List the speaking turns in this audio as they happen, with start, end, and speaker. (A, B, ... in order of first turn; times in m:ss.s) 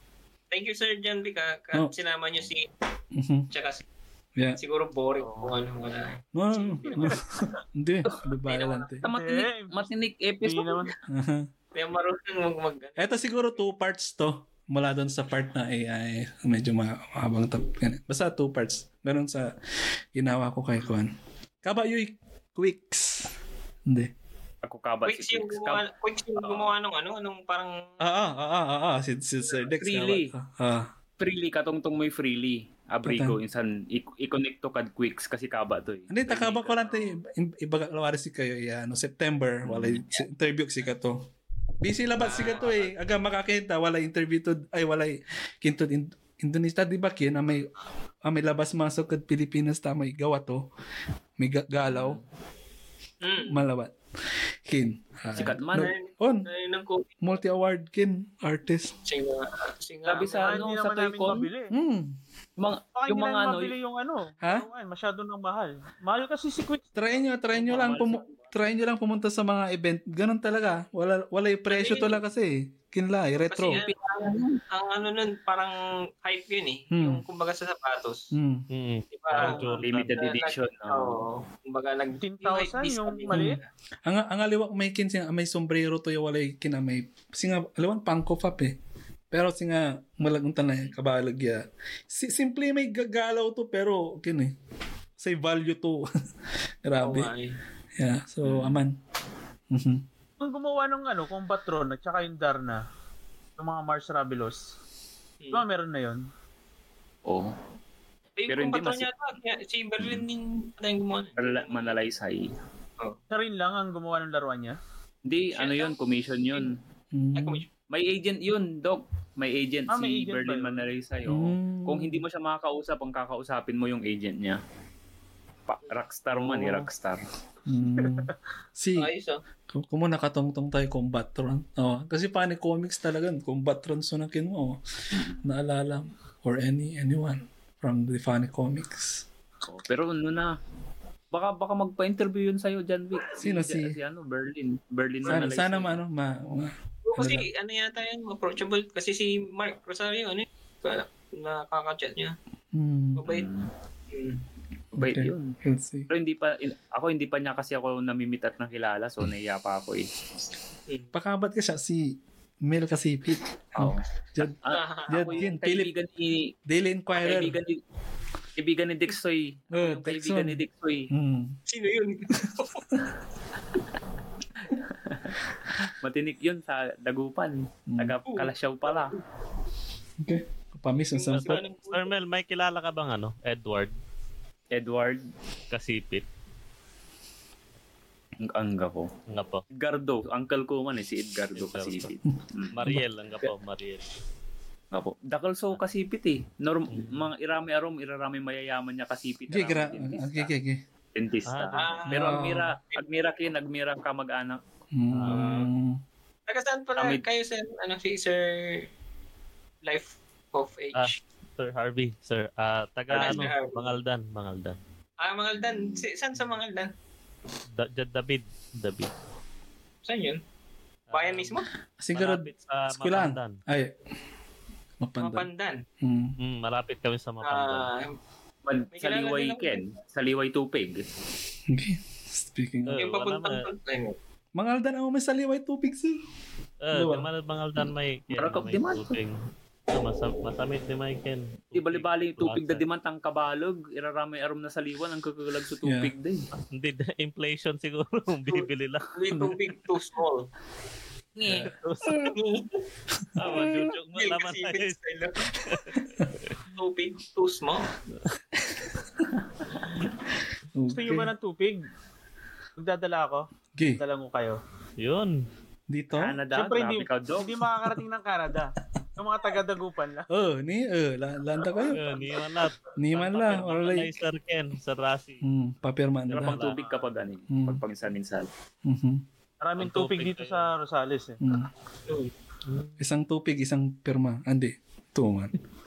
0:00.5-0:02.7 A
0:03.1-0:03.5 B
0:03.5-0:03.8 A
0:04.6-0:07.2 A
0:06.3-0:09.0 B
0:08.4-0:08.9 A
0:09.0-0:10.9 C
0:09.1-0:09.9 D
0:10.4-0:10.9 D
0:11.1-0:11.5 B
0:11.7-0:13.5 A
0:13.0-0:19.5 B
0:20.1-0:21.1 B
0:21.6-0:23.3 B
0:23.9-0:24.1 B
0:24.6-0:25.8 C
0:25.0-0:28.0 A
0:26.4-0:26.7 C
0:28.0-0:30.9 B
0:29.6-0:30.3 C
0:31.2-0:37.2 C
0:33.0-0:33.4 B
0:36.1-0:41.3 B
0:39.6-0:40.2 C
0:41.8-0:47.7 B
0:42.2-0:42.8 C
0:48.2-0:50.7 B
0:51.4-0:52.2 B
0:51.9-0:52.2 C
0:53.2-0:53.7 A
0:53.5-0:53.9 B
0:54.6-0:56.5 B
0:55.4-0:55.9 C
0:55.7-0:57.4 A
0:57.2-0:58.9 B
0:59.0-1:00.7 A
1:00.1-1:01.5 C
1:00.1-1:01.7 D
1:01.7-1:02.2 B
1:02.6-1:03.7 C
1:02.9-1:07.1 D
1:07.0-1:13.8 B
1:07.5-1:08.3 C
1:11.7-1:12.2 A
1:13.5-1:18.3 A
1:13.7-1:14.6 C
1:16.9-1:17.2 B
1:18.3-1:18.6 B
1:18.7-1:20.4 E
1:19.1-1:23.6 A
1:19.4-1:21.2 C
1:22.2-1:23.6 D
1:23.3-1:28.8 B
1:29.3-1:34.5 B
1:35.2-1:36.1 B
1:36.8-1:37.3 B
1:37.0-1:37.5 A
1:38.0-1:39.0 B
1:38.4-1:38.8 C
1:39.7-1:40.0 B
1:40.4-1:42.8 D
1:43.6-1:44.6 D
1:45.5-1:46.2 D
1:47.2-1:47.5 C
1:48.4-1:52.0 A
1:48.5-1:49.1 C
1:51.4-1:52.5 C
1:53.3-1:54.8 D
1:55.2-1:56.7 C
1:55.5-1:56.0 A
1:57.1-1:57.6 B
1:57.4-1:57.6 A
1:57.9-2:04.6 C
1:59.9-2:00.9 D
2:01.2-2:02.2 B
2:05.7-2:07.2 C
2:06.5-2:06.7 B
2:07.7-2:09.1 B
2:08.0-2:08.3 D
2:09.0-2:09.4 A
2:09.7-2:14.8 B
2:15.4-2:19.2 B
2:19.6-2:20.5 C
2:21.3-2:26.0 C
2:23.4-2:23.9 B
2:25.2-2:27.5 B
2:27.0-2:32.3 A
2:32.7-2:33.2 B
2:33.2-2:33.5 A
2:33.2-2:33.7 C
2:34.1-2:34.4 A
2:34.9-2:35.6 C
2:35.0-2:36.1 B
2:36.1-2:40.1 C
2:41.1-2:44.5 B
2:43.8-2:46.5 C
2:44.7-2:45.4 A
2:45.1-2:45.9 B
2:46.7-2:47.6 B
2:47.2-2:47.8 C
2:48.6-2:51.1 C
2:49.7-2:51.6 B
2:51.7-2:52.8 A
2:54.6-2:59.1 C
2:57.9-2:58.2 B
2:58.3-2:59.2 A
3:00.2-3:01.6 B
3:01.0-3:02.1 A
3:01.3-3:03.9 E
3:04.7-3:05.2 C
3:05.7-3:06.2 E
3:08.4-3:09.1 C
3:09.3-3:09.6 E
3:09.8-3:12.7 C
3:11.6-3:12.2 E
3:12.7-3:14.0 E
3:14.9-3:20.5 C
3:16.9-3:17.2 E
3:19.5-3:20.8 B
3:21.1-3:24.6 C
3:21.5-3:22.0 E
3:21.7-3:23.0 A
3:22.1-3:22.8 B
3:24.9-3:26.0 B
3:25.1-3:25.7 E
3:25.3-3:25.7 A
3:26.5-3:28.8 A
3:27.0-3:27.2 C
3:29.8-3:31.2 A
3:30.9-3:34.8 E
3:33.1-3:33.9 A
3:35.2-3:36.9 A
3:37.7-3:39.1 E
3:40.0-3:40.4 A
3:41.1-3:41.5 E
3:41.1-3:41.7 A
3:42.0-3:43.9 B
3:42.1-3:43.6 E
3:45.0-3:45.5 B
3:45.2-3:45.8 A
3:46.0-3:46.3 B
3:46.4-3:47.9 E
3:47.4-3:48.1 A
3:48.6-3:51.1 C
3:48.9-3:50.0 A
3:51.7-3:53.0 B
3:52.9-3:53.6 E
3:53.0-3:54.2 A
3:54.6-3:56.2 B
3:56.8-4:02.8 E
3:56.9-3:57.3 B
3:58.3-3:59.2 C
4:01.7-4:06.5 C
4:05.8-4:06.1 B
4:06.7-4:09.1 E
4:09.1-4:10.5 A
4:11.4-4:11.7 C
4:11.4-4:12.3 E
4:12.3-4:12.8 A
4:13.4-4:15.0 E
4:13.4-4:15.7 A
4:13.4-4:13.7 B
4:15.5-4:16.0 E
4:16.7-4:17.8 A
4:18.6-4:18.9 B
4:20.7-4:21.3 B
4:20.9-4:21.8 D
4:22.8-4:23.4 D
4:23.8-4:24.0 B
4:24.0-4:24.6 D
4:25.0-4:25.4 E
4:25.9-4:26.4 B
4:26.2-4:27.7 C
4:26.5-4:30.3 D
4:30.3-4:32.1 B
4:31.8-4:35.4 E
4:33.0-4:34.2 B
4:35.4-4:36.7 B
4:36.3-4:38.5 C
4:36.3-4:36.8 E
4:36.8-4:37.0 D
4:37.5-4:37.8 B
4:38.8-4:39.2 B
4:39.6-4:41.4 D
4:39.8-4:40.7 E
4:41.4-4:41.7 B
4:42.7-4:43.0 E
4:43.0-4:45.5 B